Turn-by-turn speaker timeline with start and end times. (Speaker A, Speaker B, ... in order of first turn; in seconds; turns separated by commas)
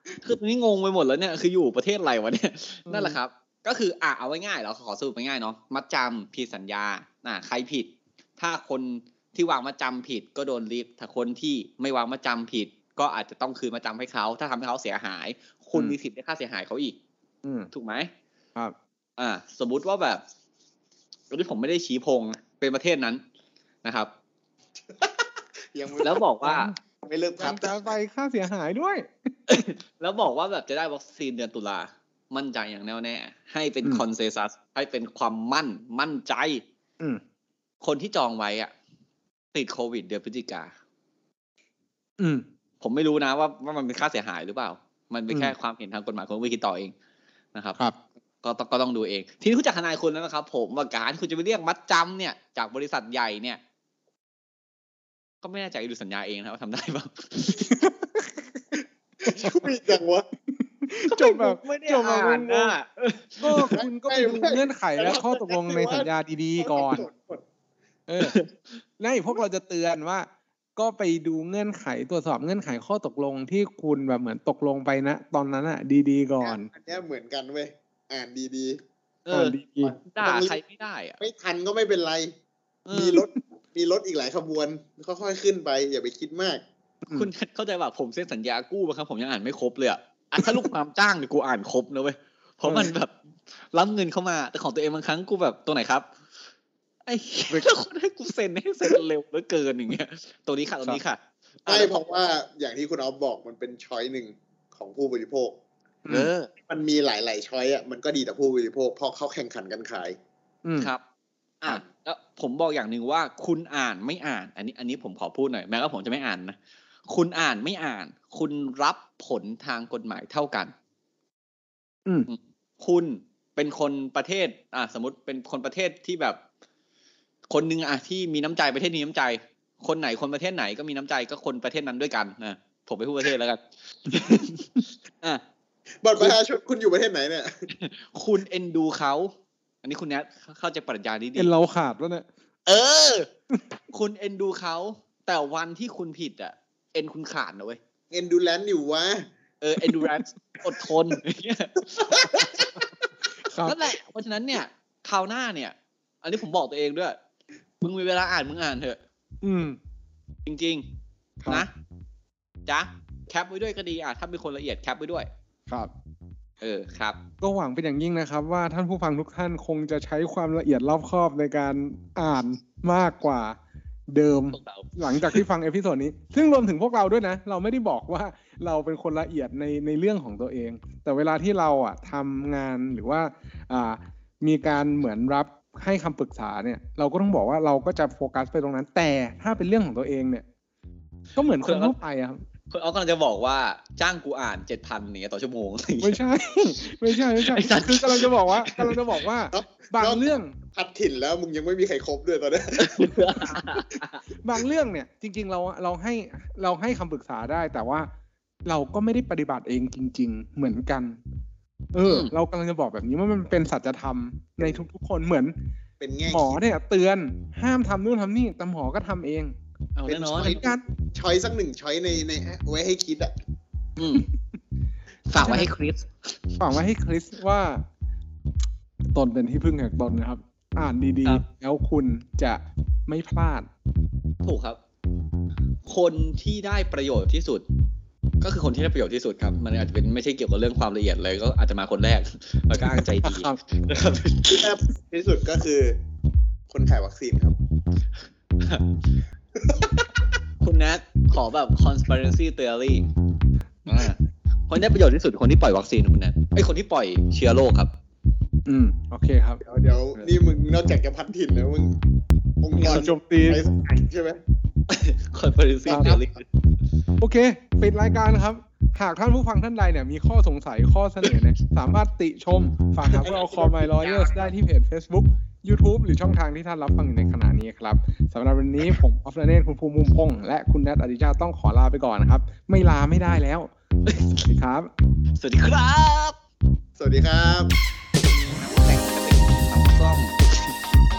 Speaker A: 0.2-16.9, Speaker B: 2.9-3.2, Speaker B: 17.4-17.7, Speaker A: 17.7-18.1, Speaker A: 19.2-20.2, Speaker A: 21.3-23.2, Speaker A: 23.8-24.1, Speaker C: 25.7-26.2, Speaker A: 26.0-26.7, Speaker B: 26.4-26.7, Speaker C: 27.0-27.9, Speaker B: 27.4-29.3, Speaker A: 29.5-36.6, Speaker A: 37.8-38.7, Speaker A: 39.5-40.7, Speaker B: 42.2-42.4, Speaker A: 42.8-46.9, Speaker A: 48.4-53.6, Speaker A: 55.4-57.7, Speaker B: 57.5-58.7, Speaker C: 59.2-60.3, Speaker B: 60.5-62.7, Speaker A: 61.0-63.7, Speaker B: 63.4-67.0, Speaker C: 63.7-67.4, Speaker B: 68.1-68.3, Speaker A: 68.2-68.5, Speaker B: 69.0-76.7, Speaker C: 76.4-78.8, Speaker A: 79.2-81.2, Speaker B: 79.3-80.0, Speaker C: 79.8-80.6, Speaker C: 81.2-82.3, Speaker A: 82.8-83.2, Speaker C: 82.9-86.6, Speaker A: 87.1-93.1, Speaker B: 92.6-92.9, Speaker A: 93.7-96.1, Speaker A: 97.0-101.9, Speaker C: 101.7-105.5, Speaker B: 106.0-106.3, Speaker A: 106.1-106.5, Speaker C: 106.6-110.2, Speaker B: 110.6-110.9, Speaker A: 111.6-120.7, Speaker A: 122.3-126.4, Speaker A: 127.5-135.4, Speaker C: 136.0-137.7, Speaker A: 137.7-141.5, Speaker B: 141.3-142.2, Speaker A: 142.7-143.3, Speaker A: 143.9-147.8, Speaker C: 148.1-149.3, Speaker A: 149.6-152.5, Speaker C: 152.1-152.8, Speaker B: 153.4-153.8, Speaker A: 153.6-157.2, Speaker A: 157.8-159.0, Speaker B: 159.4-159.8, Speaker A: 160.4-160.8, Speaker A: 162.7-165.3, Speaker A: 166.6-167.2, Speaker B: 167.4-173.6, Speaker B: 174.1-190.4, Speaker A: 174.5-175.4, Speaker B: 191.3-192.4, Speaker A: 191.6-191.9, Speaker A: 192.7-196.2, Speaker B: 196.0-200.5, Speaker A: 196.8-199.0, Speaker C: 199.5-203.1, Speaker A: 202.8-204.2, Speaker B: 203.3-203.6, Speaker B: 204.4-208.1, Speaker B: 208.7-211.2, Speaker B: 211.9-215.5, Speaker A: 212.1-212.3, Speaker C: 216.0-216.6, Speaker B: 216.3-219.5, Speaker A: 219.9-220.6, Speaker C: 220.1-223.3, Speaker B: 220.4-220.8, Speaker A: 224.0-224.3, Speaker A: 225.3-226.6, Speaker B: 225.4-225.7, Speaker B: 226.6-227.8, Speaker B: 229.1-233.7, Speaker A: 234.4-234.8, Speaker A: 235.8-237.6, Speaker A: 238.4-244.7, Speaker B: 242.8-243.6, Speaker C: 244.4-246.0, Speaker C: 246.7-247.6, Speaker A: 248.6-248.9, Speaker C: 249.6-249.9, Speaker A: 250.6-253.1, Speaker A: 253.8-257.9, Speaker B: 258.6-259.6, Speaker C: 259.6-262.0, Speaker C: 262.6-264.4, Speaker B: 262.8-263.6, Speaker A: 264.9-266.4, Speaker B: 265.9-266.2, Speaker C: 265.9-266.2, Speaker B: 267.2-283.7, Speaker C: 273.2-274.3, Speaker A: 274.0-274.3, Speaker A: 284.1-284.5, Speaker B: 284.4-284.9, Speaker A: 285.4-286.4, Speaker C: 287.0-287.7, Speaker A: 288.2-290.8